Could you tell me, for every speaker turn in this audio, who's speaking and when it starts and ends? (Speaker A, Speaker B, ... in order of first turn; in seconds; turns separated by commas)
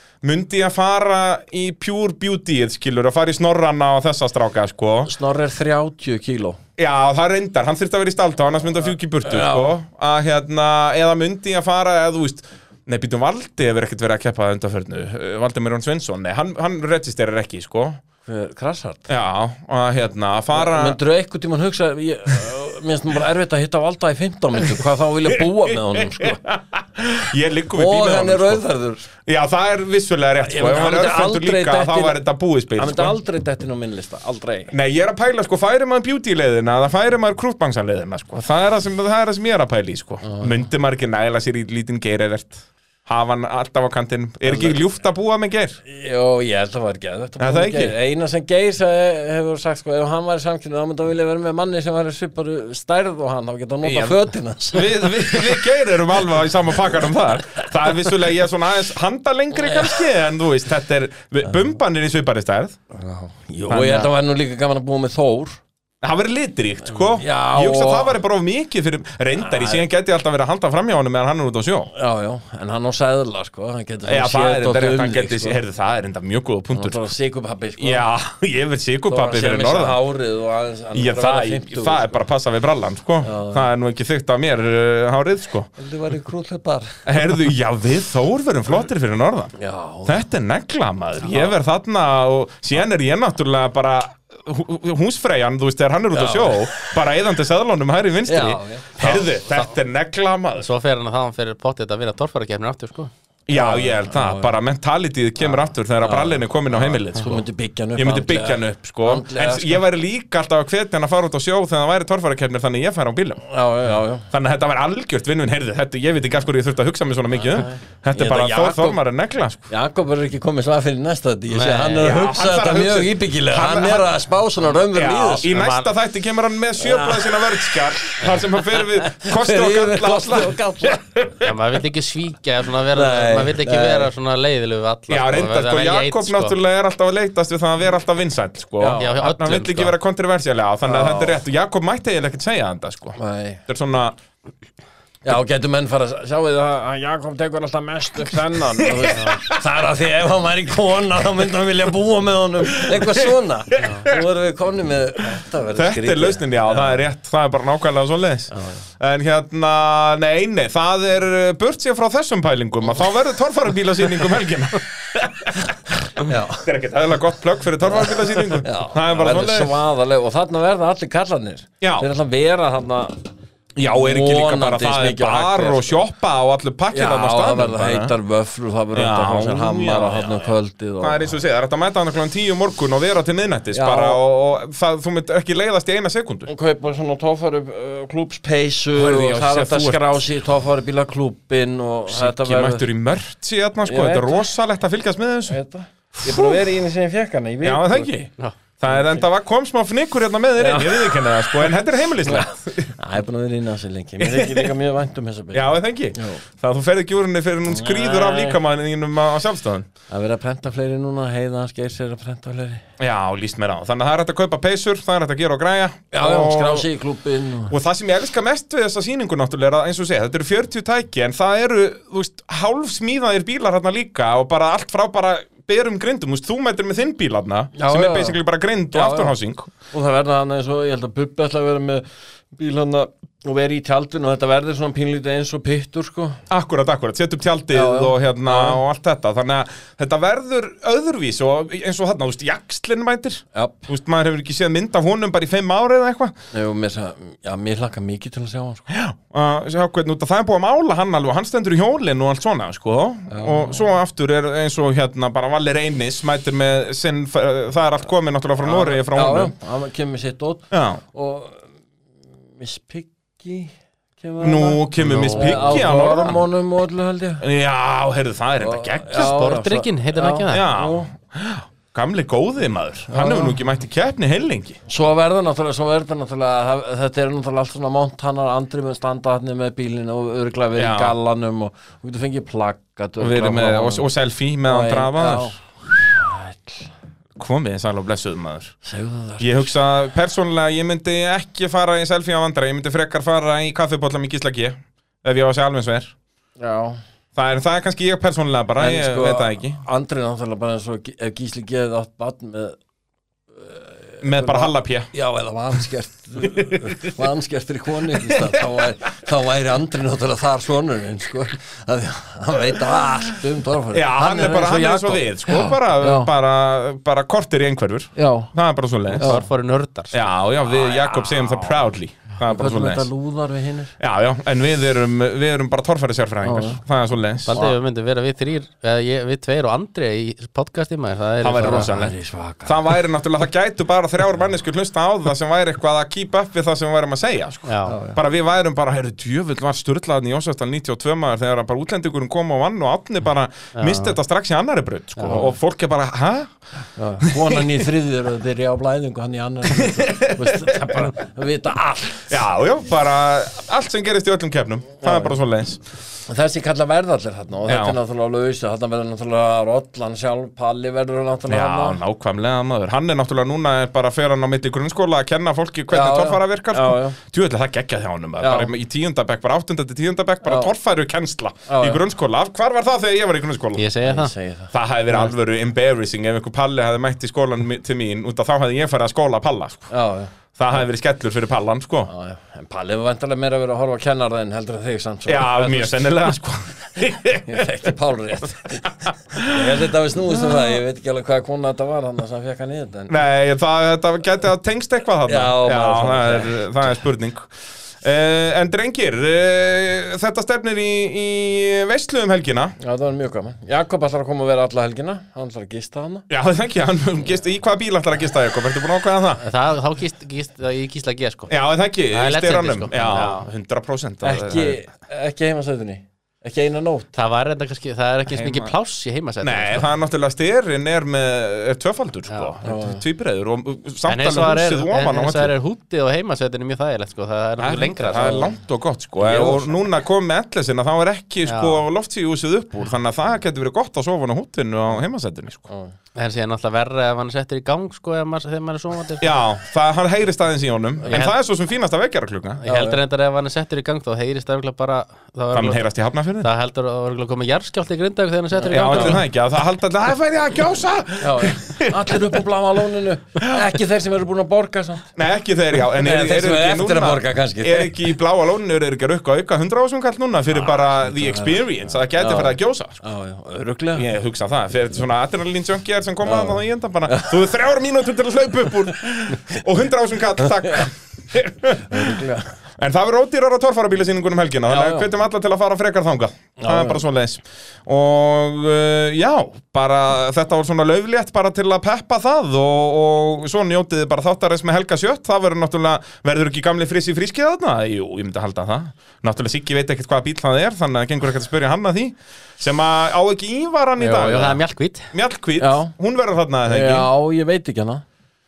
Speaker A: 0.2-5.1, Speaker B: 5.1-6.6, Speaker A: 6.8-18.0, Speaker B: 9.2-9.8, Speaker B: 18.3-19.1, Speaker A: 19.1-21.0, Speaker B: 20.5-26.4, Speaker A: 25.7-28.6, Speaker B: 27.7-29.1, Speaker A: 29.3-33.2, Speaker B: 30.4-32.2, Speaker B: 32.8-34.7, Speaker A: 34.7-45.8, Speaker B: 44.5-44.8, Speaker B: 45.9-55.7, Speaker A: 47.4-48.0, Speaker A: 53.8-54.2, Speaker A: 54.7-62.8, Speaker B: 56.9-58.1, Speaker B: 59.6-60.0, Speaker B: 62.9-65.6, Speaker A: 63.7-64.1, Speaker A: 66.0-71.9, Speaker B: 67.0-68.2, Speaker B: 69.4-69.9, Speaker B: 71.9-75.6, Speaker A: 74.0-77.0, Speaker B: 76.7-78.1, Speaker A: 77.8-80.0, Speaker B: 79.1-82.2, Speaker A: 80.9-85.7, Speaker B: 83.2-83.7, Speaker B: 85.8-87.0, Speaker A: 87.1-89.5, Speaker B: 89.6-90.2, Speaker A: 90.1-100.7, Speaker B: 91.2-91.5, Speaker B: 96.1-96.9, Speaker B: 98.3-99.2, Speaker C: 99.0-99.7, Speaker C: 100.6-103.1, Speaker A: 103.5-107.4, Speaker B: 103.5-104.5, Speaker B: 105.4-109.8, Speaker A: 108.0-113.4, Speaker B: 113.5-114.3, Speaker A: 114.3-119.7, Speaker B: 117.4-119.0, Speaker B: 119.7-125.5, Speaker C: 121.5-122.1, Speaker A: 122.0-124.2, Speaker A: 124.9-131.5, Speaker C: 125.5-125.9, Speaker B: 126.8-127.8, Speaker B: 128.4-131.0, Speaker C: 131.4-136.6, Speaker B: 132.9-134.1, Speaker A: 135.1-144.2, Speaker B: 138.8-139.1, Speaker C: 138.9-140.0, Speaker B: 140.8-141.4, Speaker B: 143.2-143.6, Speaker B: 145.2-157.0, Speaker A: 149.0-149.5, Speaker A: 152.9-153.2, Speaker A: 153.8-154.2, Speaker A: 155.8-169.8, Speaker B: 158.5-158.8, Speaker B: 166.2-166.7, Speaker B: 167.8-173.3, Speaker A: 171.8-172.1, Speaker A: 173.8-178.1, Speaker B: 173.9-176.1, Speaker B: 176.9-181.3, Speaker A: 178.9-186.5, Speaker B: 183.7-184.2, Speaker B: 186.5-192.9, Speaker A: 188.9-190.2, Speaker A: 192.1-195.6, Speaker B: 193.9-194.5, Speaker B: 195.5-198.3, Speaker A: 196.2-196.7, Speaker A: 197.6-202.9, Speaker B: 198.9-199.2, Speaker B: 200.6-206.4, Speaker A: 204.2-204.7, Speaker A: 205.5-209.9, Speaker B: 207.7-208.6, Speaker B: 210.1-212.8, Speaker A: 213.0-216.9, Speaker B: 216.1-217.8, Speaker A: 217.7-229.7, Speaker B: 227.8-229.4, Speaker B: 229.9-236.4, Speaker A: 236.5-246.3, Speaker B: 237.7-238.8, Speaker B: 243.5-243.9, Speaker B: 246.5-248.9, Speaker A: 248.9-259.6, Speaker B: 253.3-253.9, Speaker B: 258.6-261.7, Speaker A: 260.7-261.0, Speaker B: 262.6-267.4, Speaker A: 264.4-266.5, Speaker C: 265.0-265.9, Speaker A: 267.4-269.4, Speaker B: 268.6-271.1, Speaker C: 269.1-270.7, Speaker A: 270.5-274.8, Speaker B: 273.1-273.6, Speaker B: 274.9-284.1, Speaker A: 280.8-281.2, Speaker A: 283.2-285.6, Speaker B: 284.6-286.9, Speaker A: 287.4-288.7, Speaker B: 288.9-289.7, Speaker A: 289.4-296.1, Speaker B: 296.6-297.0, Speaker A: 297.4-299.8, Speaker B: 298.8-302.8, Speaker B: 303.6-316.3, Speaker A: 304.2-305.1, Speaker A: 306.4-307.1, Speaker A: 308.1-308.5, Speaker A: 313.9-319.4, Speaker B: 318.2-318.5, Speaker C: 319.1-320.3, Speaker B: 319.2-319.4, Speaker A: 320.1-323.1, Speaker B: 320.6-321.9, Speaker B: 322.5-323.9, Speaker A: 324.0-327.6, Speaker B: 326.4-326.8, Speaker C: 327.5-331.9, Speaker A: 331.4-346.5, Speaker B: 331.6-332.9, Speaker C: 337.7-338.0, Speaker B: 337.9-338.2, Speaker C: 343.8-344.2, Speaker C: 345.2-345.5, Speaker B: 347.0-352.4, Speaker A: 347.2-347.6, Speaker A: 349.7-351.1, Speaker A: 352.3-355.8, Speaker B: 355.0-355.4, Speaker B: 356.2-362.0, Speaker A: 357.7-358.0, Speaker A: 361.5-373.9, Speaker B: 365.9-367.2, Speaker B: 368.4-368.7, Speaker B: 370.4-370.7, Speaker B: 371.7-372.0, Speaker C: 373.8-374.3, Speaker B: 374.0-374.7, Speaker A: 374.7-379.9, Speaker B: 379.9-380.3, Speaker A: 380.6-382.1, Speaker B: 382.1-386.2, Speaker A: 385.3-387.9, Speaker B: 387.5-393.2, Speaker A: 389.1-389.6, Speaker A: 390.4-390.7, Speaker A: 393.1-397.5, Speaker B: 395.3-397.0, Speaker A: 398.0-402.8, Speaker B: 402.8-406.3, Speaker A: 406.3-409.4, Speaker C: 409.4-411.6, Speaker A: 411.5-414.8, Speaker C: 412.1-413.5, Speaker B: 414.2-417.1, Speaker C: 417.1-419.9, Speaker A: 418.3-418.7, Speaker A: 419.4-425.5, Speaker C: 422.3-422.6, Speaker B: 422.6-423.0, Speaker C: 424.1-428.6, Speaker A: 427.6-435.7, Speaker B: 428.1-428.5, Speaker C: 429.2-429.8, Speaker C: 431.5-431.9, Speaker B: 435.7-435.9, Speaker C: 436.2-439.3, Speaker A: 439.2-442.6, Speaker C: 441.0-441.4, Speaker C: 442.6-445.8, Speaker B: 442.7-443.0, Speaker A: 445.5-446.5, Speaker C: 446.4-449.2, Speaker A: 448.7-452.4, Speaker B: 448.7-449.2, Speaker B: 451.2-455.1, Speaker A: 455.2-463.0, Speaker B: 455.9-458.0, Speaker B: 460.5-464.1, Speaker A: 463.9-472.2, Speaker B: 466.2-467.4, Speaker B: 471.9-472.5, Speaker A: 472.8-497.1, Speaker B: 474.7-475.1, Speaker B: 476.6-477.0, Speaker C: 494.0-495.1, Speaker B: 495.6-495.9, Speaker B: 496.7-498.0